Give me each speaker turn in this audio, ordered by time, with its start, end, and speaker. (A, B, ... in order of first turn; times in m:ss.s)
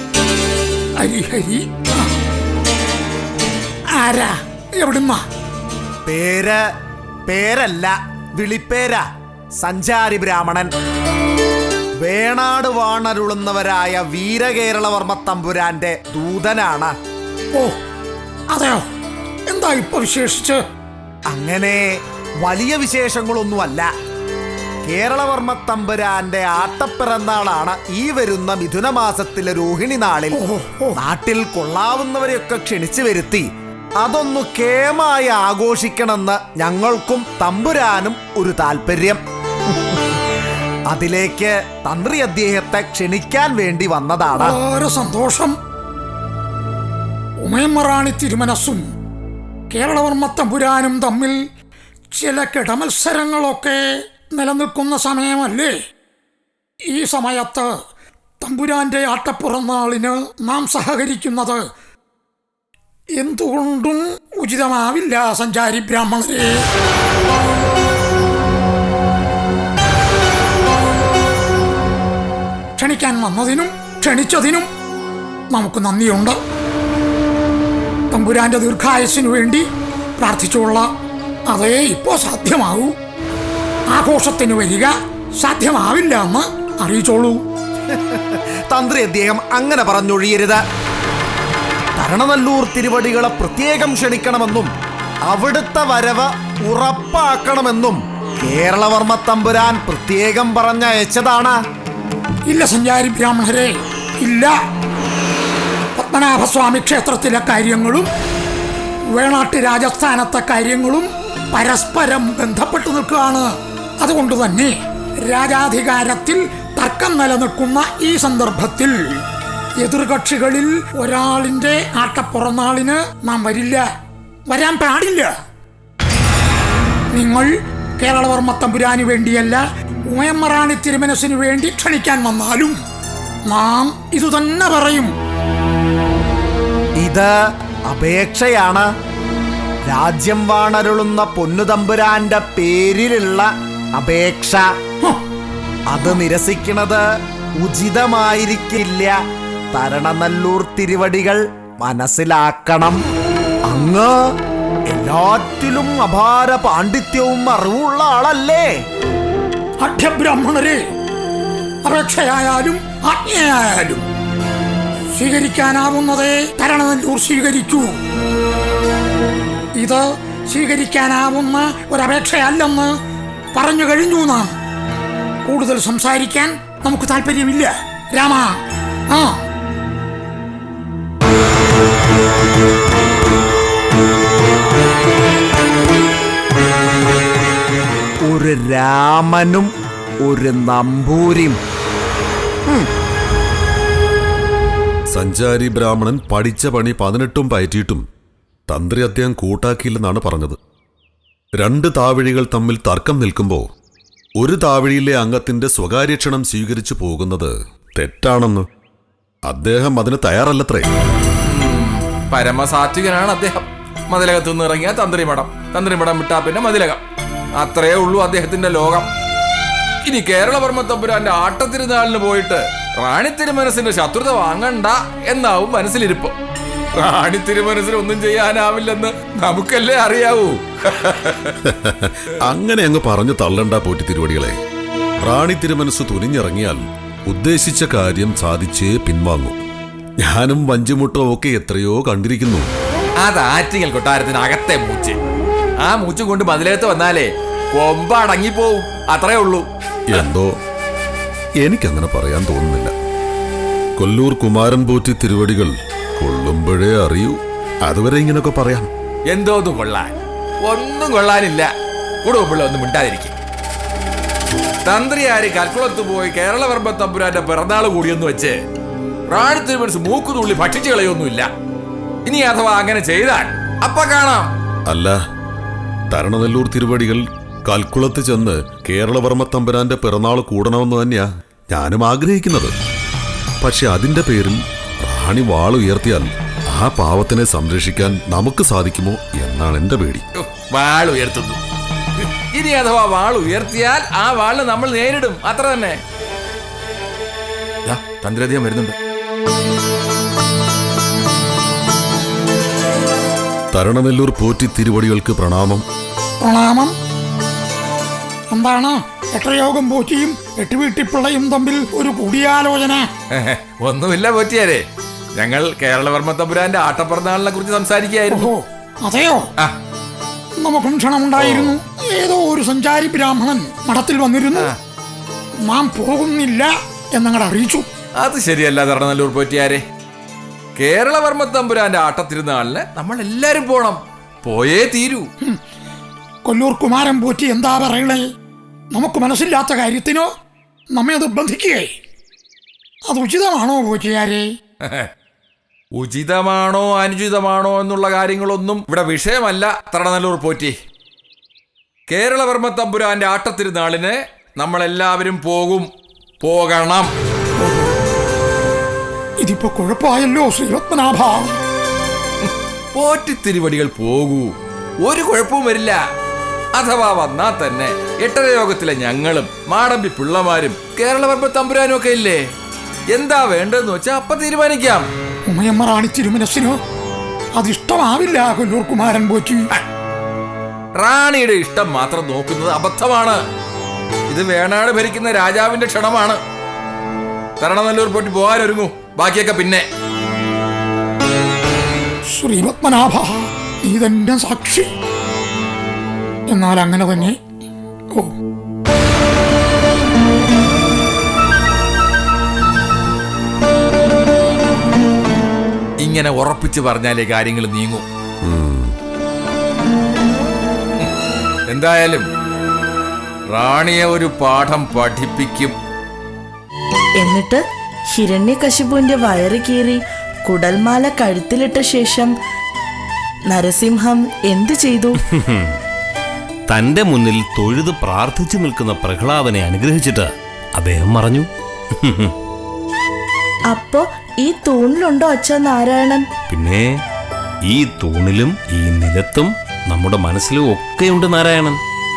0:01.0-0:02.1 A
0:04.0-0:05.2 A
0:06.1-0:06.6 B
0:07.3-0:09.0 B
0:09.6-0:10.7 B
0:12.0-0:16.9 B
0:18.5-0:18.8 A
0:19.5-0:20.6 A
0:21.3-0:23.9 B
0:24.8-0:30.4 B
0:30.4-0:30.9 A
0:31.0-0:39.2 B
0:40.9-0:44.6 B
0:44.4-0:45.5 A
0:47.4-0:48.8 A
0:49.7-0:51.4 A
0:52.1-0:55.8 A
0:56.9-0:57.7 A
0:58.4-1:01.6 A
1:03.2-1:06.6 A
1:12.8-1:14.7 A
1:15.5-1:16.4 A
1:18.1-1:19.6 A
1:20.2-1:20.9 A
1:21.5-1:22.9 A
1:23.9-1:27.4 A
1:27.9-1:30.6 B
1:32.0-1:34.7 B
1:35.3-1:41.6 B
1:42.5-1:44.5 A
1:46.0-1:48.1 A
1:49.1-1:53.5 A
1:54.0-1:59.2 A
1:59.8-2:03.8 A
2:04.5-2:05.3 A
2:07.1-2:12.8 A
2:13.5-2:15.1 A
2:17.0-2:17.3 B
2:17.9-2:18.8 B
2:19.9-2:24.6 B
2:25.9-2:27.0 B
2:27.6-2:29.2 B
2:29.7-2:33.0 B
2:33.6-2:34.2 B
2:34.9-2:38.7 B
2:39.8-2:40.8 A
2:41.8-2:44.0 A
2:45.1-2:48.0 A
2:49.8-2:52.9 A
2:53.5-2:54.5 A
2:55.4-2:58.6 A
2:59.1-2:59.4 A
3:08.2-3:09.7 B
3:10.2-3:11.6 B
3:15.1-3:18.0 C
3:18.7-3:20.6 C
3:21.6-3:23.6 C
3:24.4-3:28.7 C
3:29.5-3:30.9 C
3:31.4-3:37.0 D
3:37.5-3:39.1 D
3:40.0-3:46.3 D
3:47.0-3:51.3 D
3:51.6-3:54.6 C
3:55.2-3:59.6 C
4:00.2-4:02.7 C
4:03.2-4:05.2 D
4:05.8-4:09.7 D
4:10.1-4:10.5 C
4:11.6-4:12.9 C
4:14.0-4:18.9 C
4:19.3-4:23.3 D
4:24.8-4:28.6 D
4:29.3-4:31.5 D
4:32.2-4:34.5 D
4:34.9-4:35.2 C
4:36.1-4:42.8 C
4:43.6-4:50.2 C
4:50.4-4:51.6 D
4:52.2-4:56.0 D
4:57.8-4:58.9 D
5:03.7-5:05.8 C
5:06.4-5:06.9 A
5:08.5-5:13.1 A
5:13.3-5:18.5 D
5:18.3-5:19.4 A
5:20.6-5:24.7 A
5:21.4-5:21.7 D
5:25.6-5:27.9 A
5:28.2-5:29.8 D
5:30.8-5:35.3 D
5:36.4-5:38.3 A
5:38.9-5:40.3 A
5:40.9-5:41.9 A
5:43.1-5:44.5 A
5:44.8-5:45.1 D
5:45.9-5:50.8 D
5:52.1-5:55.9 D
5:56.4-5:57.1 D
5:59.4-6:01.5 A
6:02.4-6:06.0 D
6:06.7-6:12.5 D
6:13.1-6:15.1 D
6:15.5-6:16.8 A
6:17.6-6:19.7 A
6:21.0-6:23.4 D
6:24.3-6:26.4 D
6:27.6-6:29.9 D
6:32.3-6:34.9 A
6:36.5-6:37.4 A
6:46.0-6:48.1 D
6:48.4-6:48.9 C
6:51.7-6:52.3 D
6:53.5-6:55.8 D
6:57.2-7:02.3 E
7:03.5-7:05.2 E
7:05.3-7:05.7 F
7:06.7-7:11.5 F
7:12.0-7:12.3 F
7:13.7-7:16.3 E
7:16.5-7:17.0 F
7:17.7-7:21.8 F